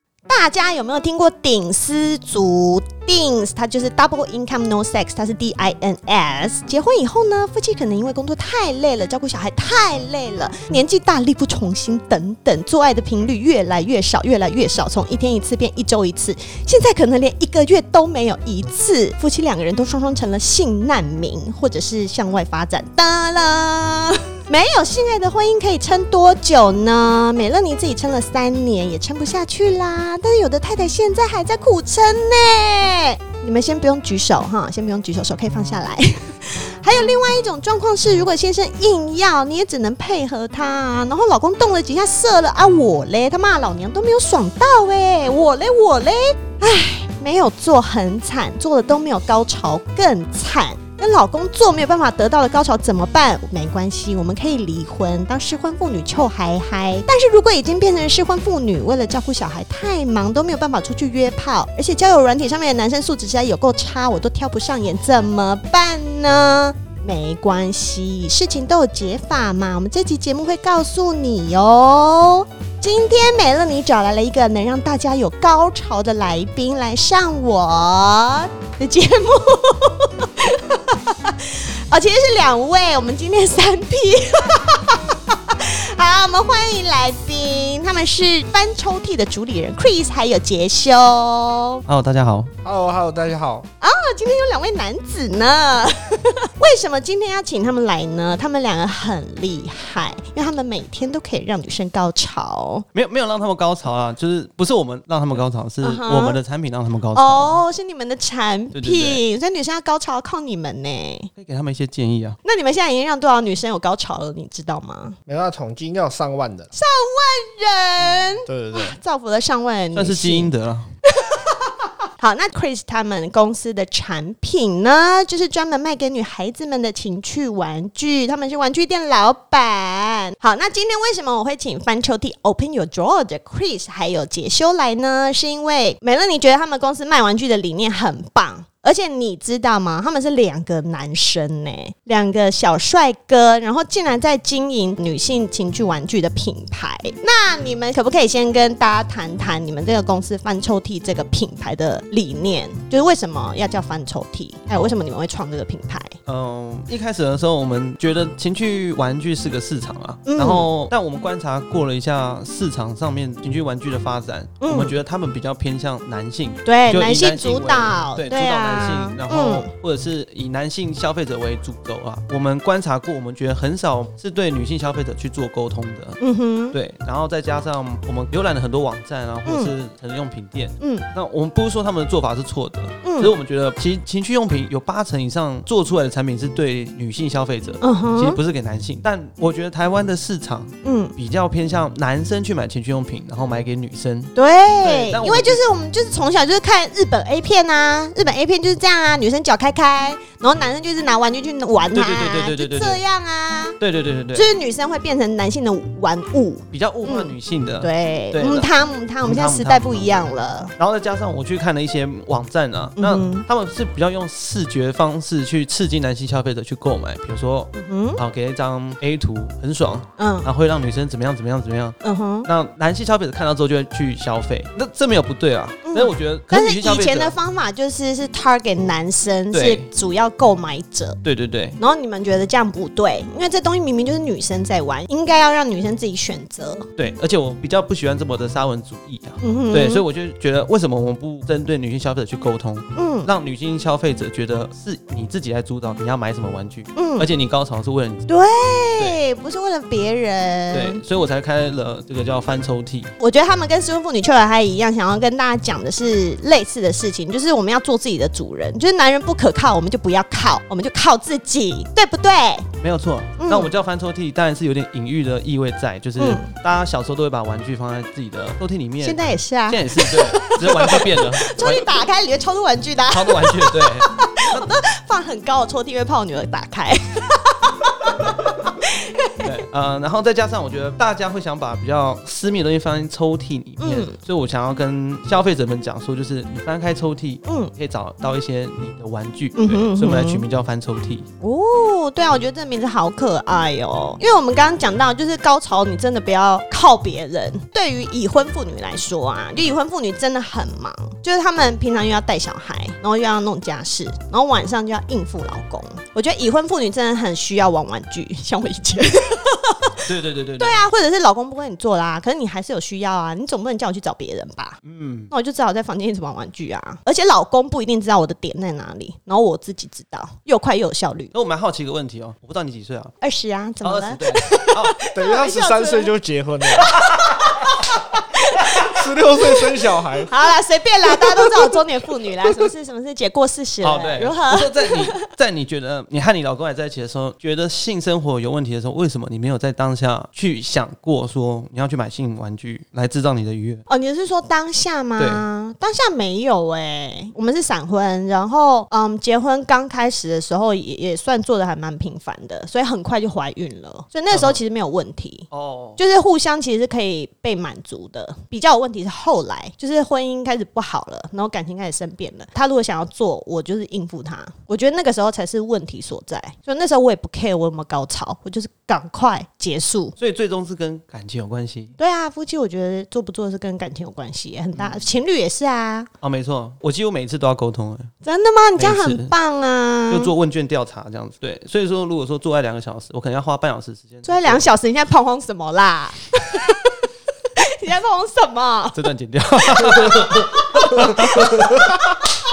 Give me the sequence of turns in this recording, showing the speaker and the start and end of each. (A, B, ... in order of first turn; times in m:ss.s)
0:00.3-1:31.8 A
1:31.9-1:32.5 B
1:32.6-1:33.7 C
1:33.8-1:42.8 A
1:42.9-1:47.6 B
1:45.8-1:46.4 A
1:47.1-1:51.3 A
1:48.7-1:49.2 B
1:51.4-1:52.4 B
1:52.4-1:55.2 A
1:55.2-1:56.7 C
1:56.7-2:00.5 A
1:58.4-1:59.0 C
1:59.9-2:00.9 B
2:01.1-2:36.1 A
2:36.2-2:56.2 B
2:40.2-2:40.7 A
2:44.6-2:44.9 A
2:46.6-2:49.7 A
2:56.2-2:56.8 A
2:56.7-3:15.6 B
2:59.4-2:59.7 A
3:00.8-3:01.1 A
3:03.0-3:03.3 A
3:07.8-3:08.4 A
3:10.8-3:11.1 A
3:14.3-3:23.8 A
3:21.9-3:23.0 B
3:23.8-3:24.5 B
3:24.3-3:30.7 A
3:26.7-3:28.7 B
3:29.2-3:30.1 B
3:30.8-3:47.3 B
3:33.0-3:33.4 A
3:37.7-3:38.2 A
3:40.2-3:40.5 A
3:42.0-3:42.5 A
3:45.8-3:51.2 A
3:49.5-3:49.8 B
3:51.2-3:51.8 B
3:51.8-3:56.9 A
3:57.0-4:08.2 B
3:59.4-4:00.0 A
4:03.0-4:03.3 A
4:06.9-4:07.3 A
4:08.3-4:11.0 A
4:10.7-4:13.1 B
4:13.2-4:22.7 A
4:22.8-4:31.9 B
4:23.4-4:23.7 A
4:26.2-4:26.5 A
4:29.0-4:39.5 A
4:33.1-4:34.7 B
4:39.4-4:51.2 B
4:43.8-4:44.1 A
4:47.4-4:47.7 A
4:49.6-4:50.4 A
4:51.4-5:10.0 A
5:10.0-5:10.8 B
5:10.6-5:14.8 A
5:14.8-5:15.3 B
5:15.3-5:21.3 A
5:21.3-5:23.1 B
5:23.2-5:26.1 A
5:23.8-5:25.0 B
5:25.1-5:27.0 C
5:26.7-5:29.5 A
5:28.7-5:30.5 C
5:30.2-5:35.2 A
5:33.8-5:43.8 B
5:43.9-6:10.1 A
5:45.2-5:45.4 B
5:54.3-5:54.6 B
5:55.5-5:56.0 B
6:10.2-6:11.9 B
6:12.0-6:16.1 A
6:14.7-6:15.1 B
6:16.2-6:18.1 B
6:18.2-6:20.3 A
6:18.8-6:19.3 B
6:20.1-6:24.6 B
6:24.2-6:27.0 A
6:27.6-6:29.1 A
6:28.9-6:32.1 B
6:29.8-6:31.9 A